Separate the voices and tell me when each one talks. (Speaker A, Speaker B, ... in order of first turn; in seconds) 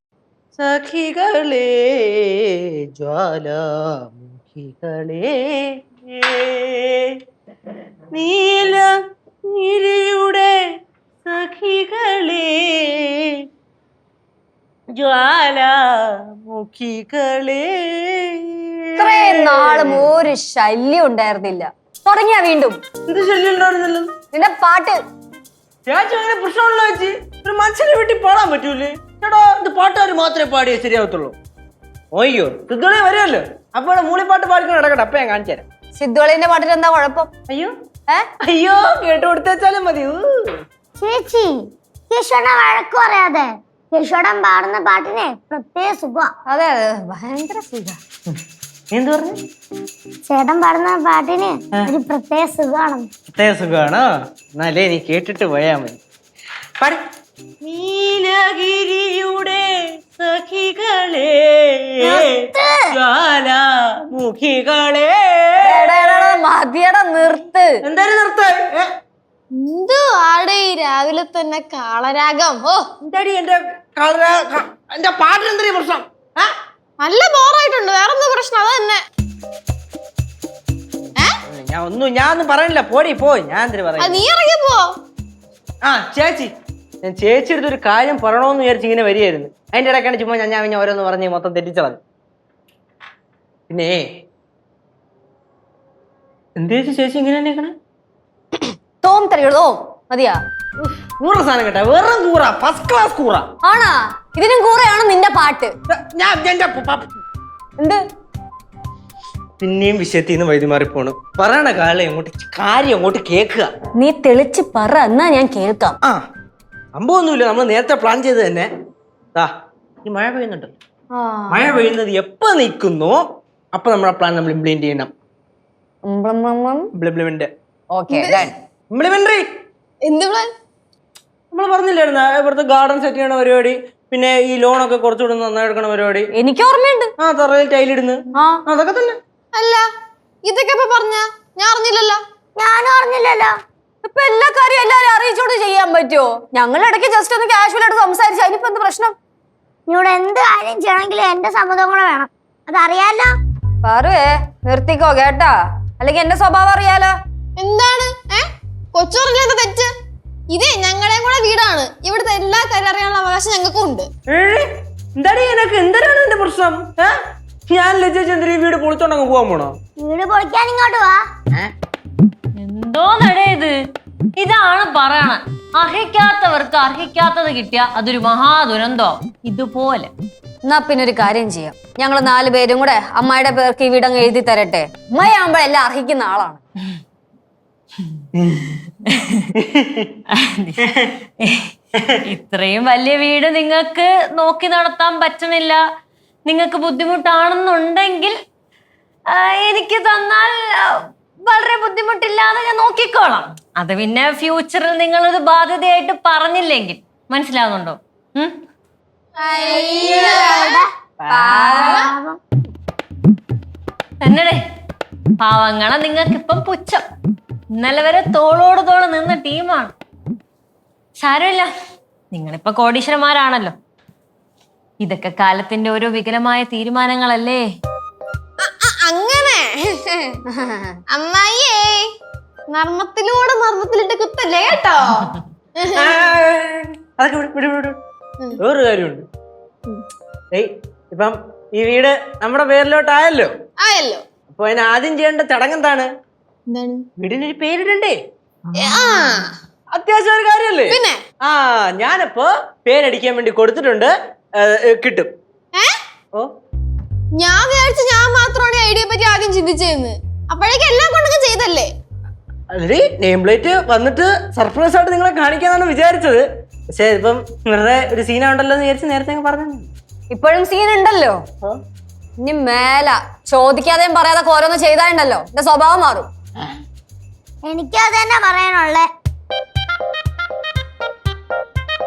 Speaker A: 0.6-7.2, 8.1-8.9, 9.5-10.5, 11.2-13.3, 14.9-20.0, 23.1-24.1, 25.9-31.4, 32.1-35.6, 38.4-40.6, 48.9-49.4, 53.3-56.0, 57.6-66.4, 67.8-68.9, 73.0-76.5, 81.5-84.2, 85.8-86.5, 87.0-92.0, 93.7-94.0, 96.6-97.7, 101.2-103.5, 105.9-107.1, 109.6-113.7, 116.9-118.7, 120.0-120.7, 121.5-123.2, 123.7-125.1, 126.9-127.5, 128.9-129.4, 131.5-136.3, 137.2-139.2, 164.3-169.7, 188.3-188.8, 189.5-190.2, 190.8-191.1, 210.0-210.3, 211.2-212.0, 236.0-238.0, 238.6-239.2, 240.5-243.5, 244.5-246.1, 247.2-248.2, 249.9-255.3, 262.7-266.4, 266.9-269.9
Speaker B: 19.0-22.8, 24.3-25.0, 36.0-37.3, 46.5-48.0, 65.6-67.7, 99.0-100.4, 103.6-105.7, 114.0-116.0, 121.2-121.8, 126.0-126.9, 127.9-128.5, 136.4-137.1, 144.0-149.1, 153.8-157.1, 180.7-186.6, 211.3-212.0, 230.5-231.0, 270.3-271.4, 272.4-276.3
Speaker C: 41.0-46.3, 50.2-53.1, 62.0-62.9, 142.6-143.6, 149.9-153.3, 170.0-171.2, 209.7-210.9, 211.5-212.4, 277.6-279.1
Speaker D: 69.6-72.8, 77.0-79.0, 84.0-84.8, 128.1-128.4, 130.1-130.4, 139.5-139.8, 140.4-142.2, 157.6-158.4, 158.9-159.9, 160.5-164.1, 209.4-210.8, 228.6-230.3, 231.1-232.0, 232.7-235.2, 243.8-244.2, 246.7-247.0, 248.8-249.4, 250.9-251.2, 257.4-261.9
Speaker E: 172.6-173.7, 174.4-180.1, 189.1-189.4, 190.3-190.8, 191.4-191.7, 192.3-195.8, 196.5-198.4, 199.3-208.6, 214.2-214.6, 215.4-217.0, 217.8-219.9, 221.2-221.7, 222.3-223.7, 225.0-227.6